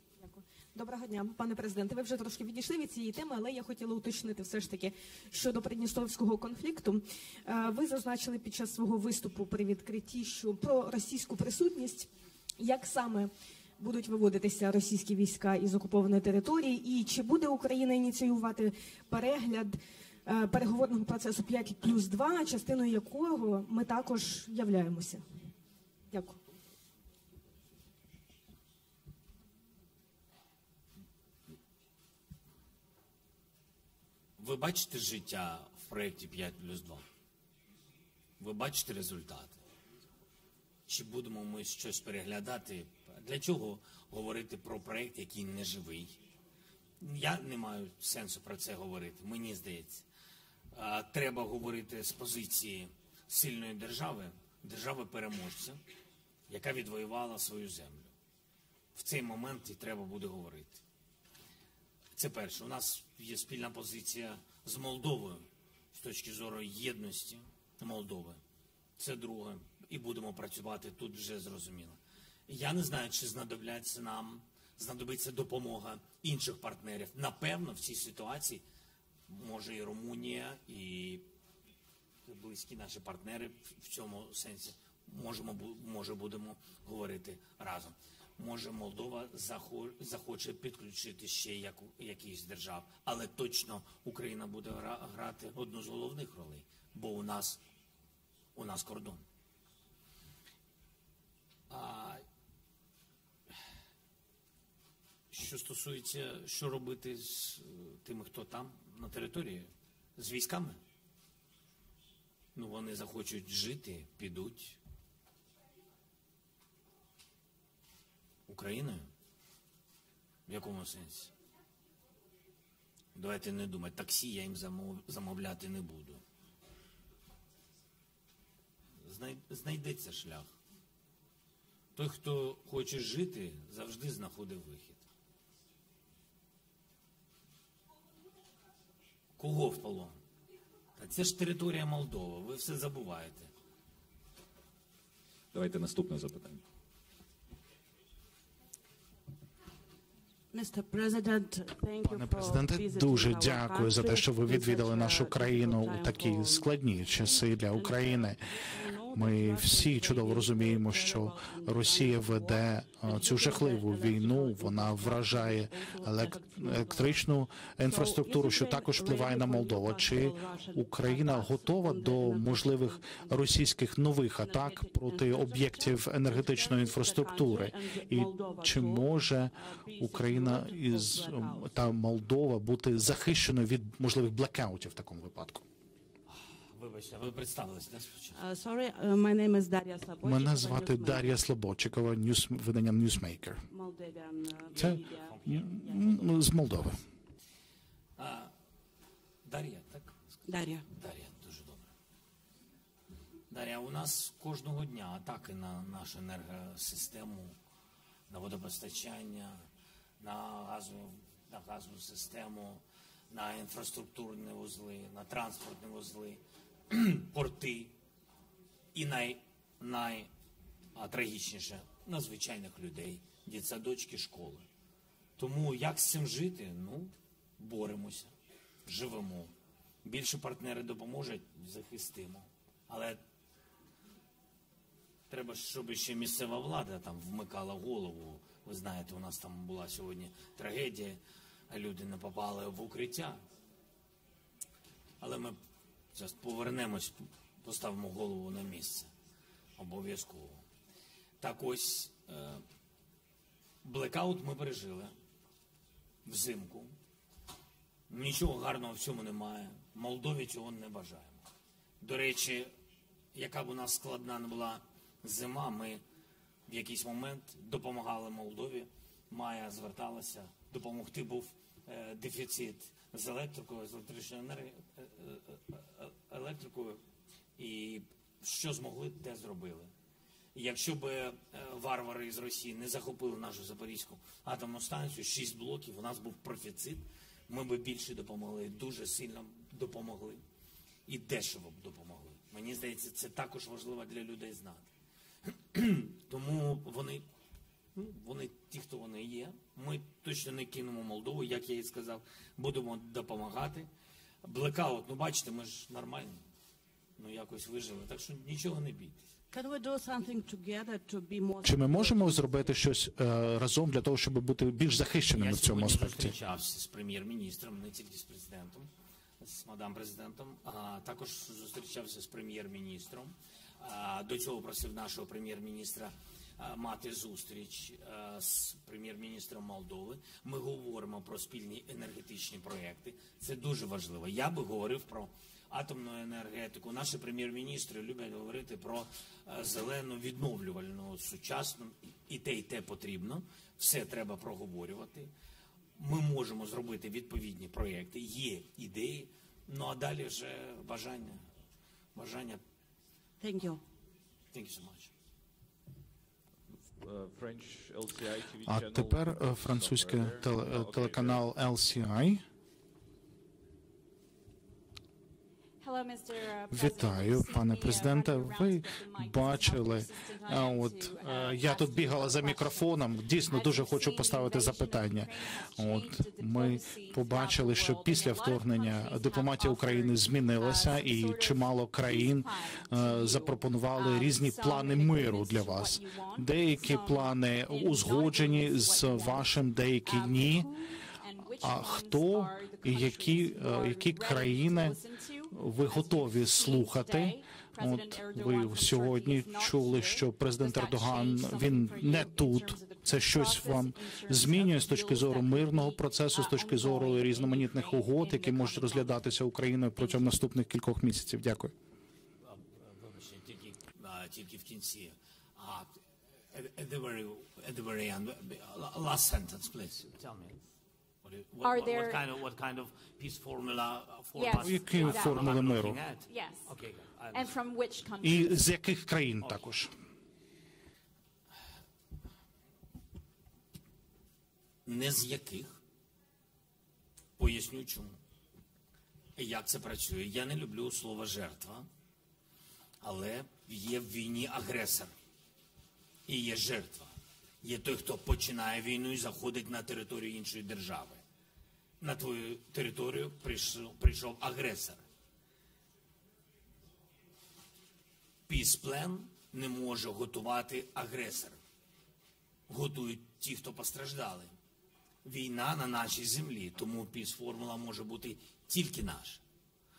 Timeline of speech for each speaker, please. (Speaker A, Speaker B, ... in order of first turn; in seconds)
Speaker A: 0.2-25.2, 26.1-26.4
Speaker B: 34.4-37.0, 38.4-39.6, 40.9-46.2, 47.0-50.1, 50.7-55.8, 56.5-58.1, 58.9-60.8, 62.1-68.4, 69.0-78.6, 79.3-81.3, 82.3-97.6, 98.5-99.2, 101.7-102.2, 105.3-110.8, 112.5-114.8, 118.5-119.1, 120.5-121.3, 123.2-126.2, 129.0-130.5, 131.9-135.1, 139.4-140.2, 141.0-143.5, 186.3-188.4, 194.8-195.9, 198.2-198.5, 199.4-200.2, 200.9-201.9, 203.5-207.6, 208.3-209.6, 210.2-218.0, 218.9-220.3, 220.9-224.7, 225.4-228.3, 228.9-229.5, 230.0-233.2, 235.3-243.4, 245.2-245.6, 246.1-249.1, 249.8-250.6, 251.4-252.6, 253.8-255.1, 256.2-256.9, 258.1-261.4, 262.0-262.7, 263.3-266.0, 266.7-277.0, 277.6-279.9, 280.5-290.4, 291.1-294.9, 295.4-297.3, 297.9-303.9, 304.4-306.4, 307.2-309.3, 315.4-318.9, 319.4-345.3, 346.0-351.4, 352.1-352.6, 354.5-355.1, 412.4-416.0, 416.5-420.6, 421.2-427.5, 434.9-435.8, 437.4-438.2, 439.4-441.9, 443.0-445.1, 446.3-451.2, 452.0-455.0, 458.5-461.6, 462.7-464.5, 465.2-469.4
Speaker C: 145.5-146.6, 356.9-361.5
Speaker D: 150.5-167.2, 167.8-173.7, 174.3-181.7, 188.3-191.4, 193.7-196.3, 200.5-200.8, 309.5-312.8, 353.4-353.8
Speaker E: 152.0-158.4, 159.1-185.7, 190.2-193.7, 194.8-197.0, 311.6-316.4, 358.6-362.4, 366.7-390.7, 391.6-395.0, 395.5-411.7, 424.6-426.0, 428.2-429.9
Speaker F: 365.8-409.3, 410.0-410.4, 421.6-422.2, 424.4-425.5, 426.2-426.7, 427.3-428.7